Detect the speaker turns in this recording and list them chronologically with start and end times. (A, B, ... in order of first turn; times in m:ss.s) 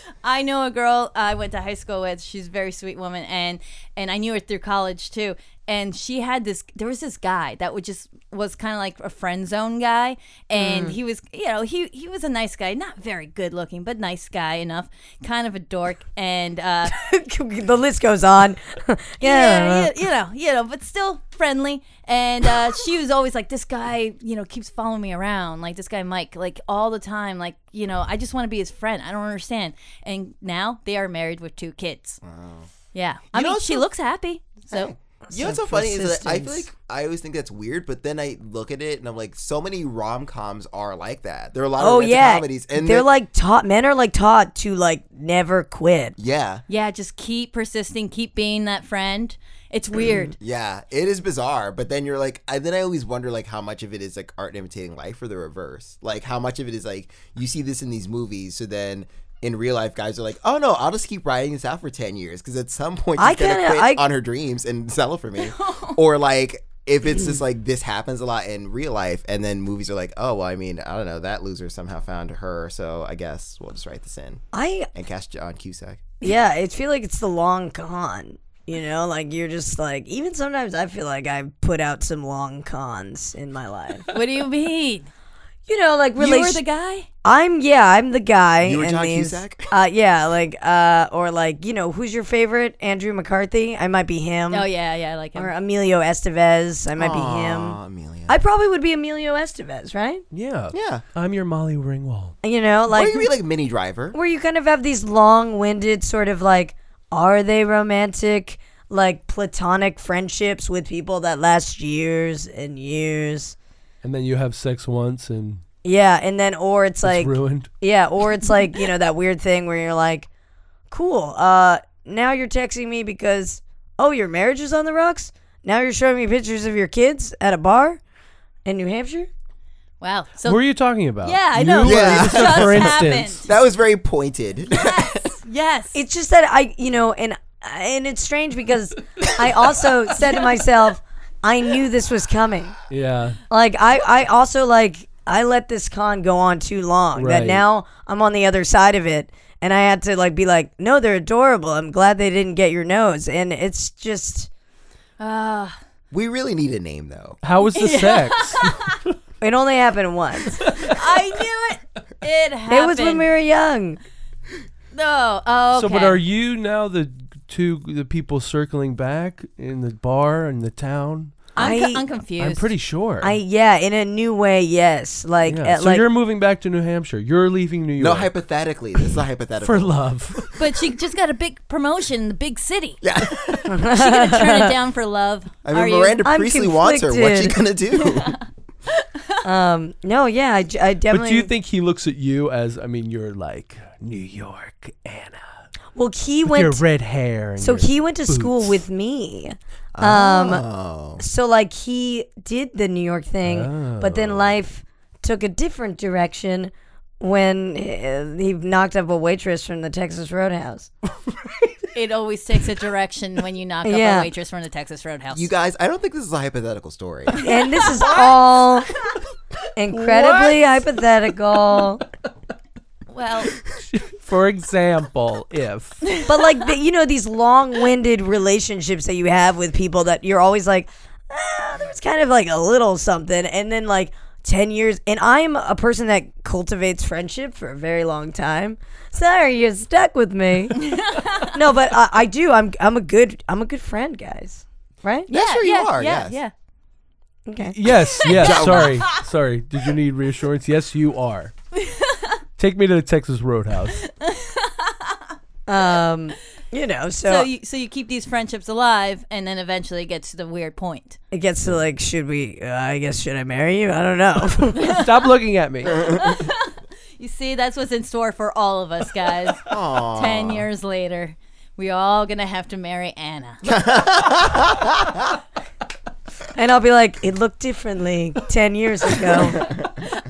0:00.2-0:16.9 A
0:10.5-0:11.0 B
0:16.9-0:19.9 B
0:19.2-0:32.2 A
0:32.2-0:32.7 C
0:32.9-0:34.9 A
0:33.3-0:33.9 C
0:34.7-0:43.1 C
0:35.3-0:36.6 B
0:41.8-0:46.2 B
0:46.2-0:46.6 C
0:46.7-0:50.3 A
0:50.4-1:16.1 C
1:03.2-1:04.0 B
1:05.4-1:06.0 A
1:14.5-1:14.9 B
1:16.2-1:24.1 B
1:24.1-1:25.1 A
1:25.7-1:26.6 B
1:26.2-1:27.1 A
1:27.2-1:34.7 B
1:28.6-1:29.7 C
1:34.5-1:35.5 A
1:35.3-1:40.2 B
1:37.0-1:38.4 C
1:40.3-1:42.3 D
1:40.7-1:41.0 C
1:42.4-1:43.3 B
1:42.9-1:44.2 C
1:44.1-1:53.5 B
1:54.0-1:55.6 D
1:55.8-2:00.3 B
1:57.0-1:57.7 D
2:00.9-2:08.0 B
2:08.6-2:09.3 B
2:10.0-2:10.6 A
2:10.4-2:13.4 D
2:11.2-2:13.5 A
2:11.8-2:15.3 C
2:14.7-2:16.0 A
2:15.9-2:22.7 B
2:22.9-2:23.4 D
2:23.5-2:34.5 B
2:27.2-2:27.6 D
2:35.2-2:35.8 A
2:36.1-2:37.4 C
2:37.4-2:38.7 D
2:37.7-2:39.0 A
2:39.4-2:40.6 B
2:40.6-2:41.0 D
2:40.7-2:43.3 A
2:42.7-2:44.0 B
2:44.9-2:46.2 A
2:45.7-2:51.5 D
2:51.6-2:52.0 B
2:51.6-2:52.7 A
2:52.4-2:53.4 D
2:53.2-2:56.0 B
2:55.4-2:58.3 D
2:58.0-3:00.6 C
2:59.6-3:00.5 D
3:00.6-3:03.0 A
3:03.0-3:03.8 C
3:03.7-3:04.7 B
3:03.9-3:06.2 A
3:05.6-3:08.4 C
3:06.2-3:07.6 B
3:08.0-3:08.3 A
3:09.0-3:09.3 A
3:09.4-3:11.5 B
3:11.1-3:15.6 D
3:15.9-3:16.8 B
3:16.4-3:18.8 D
3:17.6-3:20.6 B
3:19.9-3:21.2 C
3:21.2-3:30.9 B
3:23.4-3:24.5 D
3:31.9-3:35.5 A
3:33.8-3:34.3 B
3:35.3-3:37.5 C
3:37.4-3:38.9 B
3:37.6-3:38.3 A
3:39.7-3:42.0 B
3:39.9-3:40.8 D
3:43.1-3:43.5 A
3:43.7-3:46.1 D
3:46.3-4:05.3 B
4:00.8-4:01.6 A
4:05.3-4:06.5 A
4:05.3-4:06.4 C
4:07.4-4:07.8 B
4:07.7-4:11.5 D
4:08.2-4:09.1 A
4:08.3-4:09.1 C
4:11.8-4:12.4 A
4:12.6-4:14.0 D
4:14.0-4:15.2 A
4:15.7-4:17.5 B
4:17.2-4:21.2 A
4:21.3-4:25.0 B
4:24.8-4:25.1 A
4:24.8-4:26.1 D
4:25.8-4:33.6 A
4:26.0-4:26.4 C
4:29.7-4:30.7 C
4:33.6-4:35.1 C
4:36.5-4:39.8 B